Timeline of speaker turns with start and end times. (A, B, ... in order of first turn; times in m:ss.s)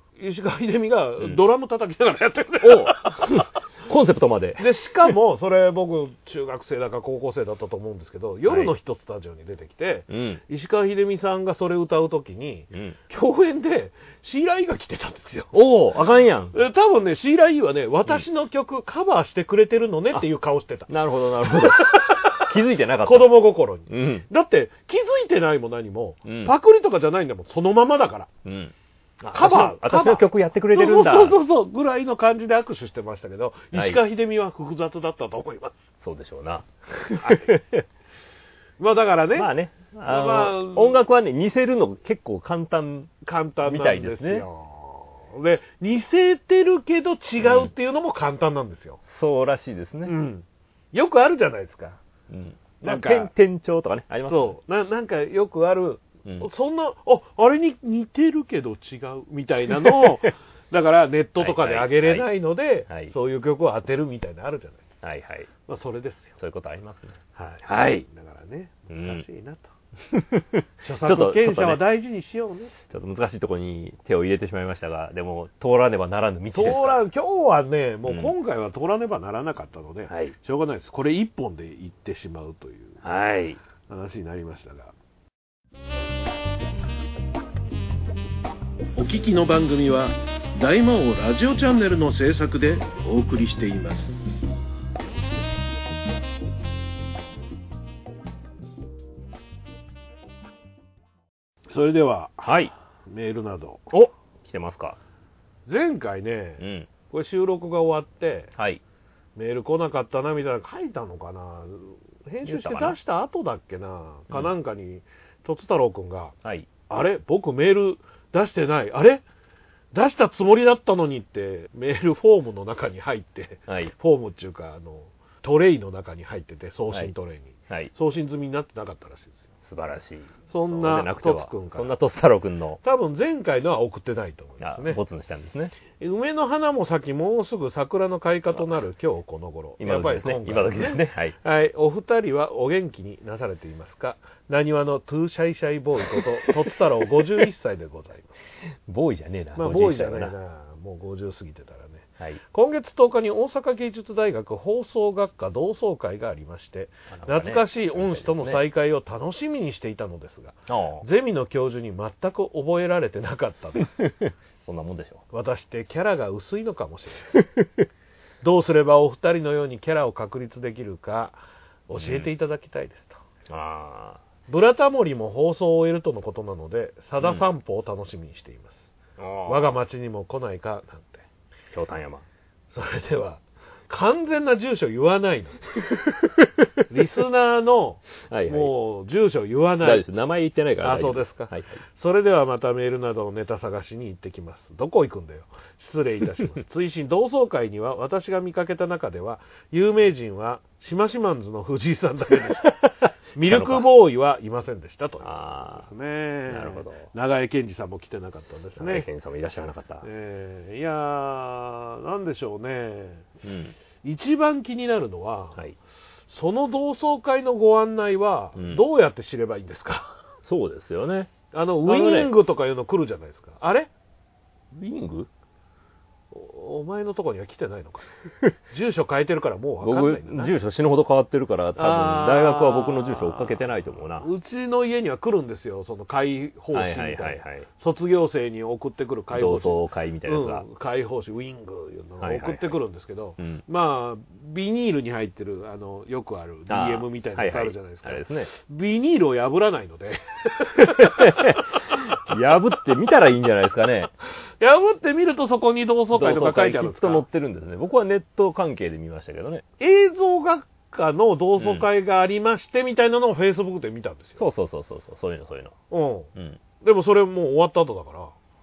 0:00.2-0:03.5 A
0:02.6-0:04.6 B
0:04.6-0:15.5 A
0:08.4-0:08.7 B
0:10.1-0:10.4 B
0:12.7-0:13.0 B
0:15.5-0:16.6 B
0:16.5-0:20.9 A
0:20.9-0:23.3 B
0:21.4-0:22.5 A
0:23.0-0:28.3 A
0:23.9-0:24.2 B
0:26.2-0:26.5 B
0:28.4-0:31.4 B
0:29.3-0:35.8 A
0:33.7-0:34.0 B
0:36.0-0:37.8 B
0:37.2-0:37.5 A
0:38.8-0:39.5 A
0:39.3-0:44.4 B
0:40.0-0:41.0 A
0:43.2-0:49.0 A
0:47.4-0:47.7 B
0:49.1-0:50.1 B
0:50.0-0:52.0 A
0:52.3-0:54.6 B
0:52.8-0:53.3 A
0:54.3-1:04.9 A
0:59.8-1:00.2 B
1:01.4-1:02.3 B
1:02.9-1:03.1 B
1:05.0-1:05.5 B
1:05.7-1:06.4 A
1:06.4-1:08.0 B
1:07.4-1:09.7 A
1:08.9-1:09.2 B
1:10.1-1:11.8 B
1:10.8-1:12.7 A
1:12.9-1:17.0 B
1:16.5-1:23.0 A
1:18.0-1:18.3 B
1:20.1-1:20.3 B
1:23.0-1:23.6 B
1:23.9-1:24.9 A
1:29.0-1:34.2 C
1:41.7-1:42.5 A
1:42.4-1:42.7 B
1:43.1-1:43.9 A
1:43.9-1:45.0 B
1:45.6-1:48.5 A
1:46.6-1:46.9 B
1:48.6-1:48.8 B
1:49.4-1:56.3 A
1:52.4-1:53.0 B
1:56.4-1:56.7 B
1:56.9-1:59.2 A
1:59.9-2:09.5 A
2:03.7-2:03.9 B
2:09.7-2:12.8 B
2:10.5-2:11.9 A
2:12.8-2:15.0 A
2:14.6-2:15.7 B
2:16.0-2:28.3 A
2:19.8-2:21.3 B
2:28.9-2:30.3 B
2:29.6-2:44.1 A
2:37.1-2:38.6 B
2:40.7-2:41.0 B
2:44.0-2:45.2 B
2:45.3-2:47.5 A
2:48.4-2:53.2 A
2:52.0-2:52.3 B
2:53.5-2:54.2 B
2:54.5-2:58.9 A
2:59.2-2:59.8 B
2:59.4-3:01.2 A
3:01.7-3:02.2 B
3:02.7-3:05.8 A
3:06.4-3:06.7 B
3:06.9-3:10.0 A
3:08.3-3:08.7 B
3:09.8-3:11.8 B
3:10.8-3:22.8 A
3:23.3-3:29.1 A
3:23.4-3:23.9 B
3:25.2-3:25.9 B
3:26.5-3:27.1 B
3:28.8-3:30.1 B
3:30.0-3:33.3 A
3:33.4-3:33.7 B
3:34.0-3:35.6 A
3:36.3-3:40.2 A
3:38.5-3:38.8 B
3:40.4-3:41.3 B
3:41.5-3:43.9 A
3:41.8-3:42.3 B
3:44.7-3:45.3 B
3:46.3-3:48.2 A
3:48.7-3:50.5 A
3:49.8-3:54.3 B
3:51.8-3:53.6 A
3:54.2-4:11.6 A
3:56.7-3:57.7 B
3:59.3-4:00.6 B
4:02.2-4:02.8 B
4:03.4-4:03.6 B
4:06.7-4:08.5 B
4:10.8-4:14.1 B
4:14.6-4:17.2 A
4:16.1-4:19.6 B
4:19.8-4:24.4 A
4:21.6-4:21.9 B
4:24.4-4:25.7 B
4:25.9-4:26.3 A
4:26.3-4:26.6 B
4:26.8-4:28.3 A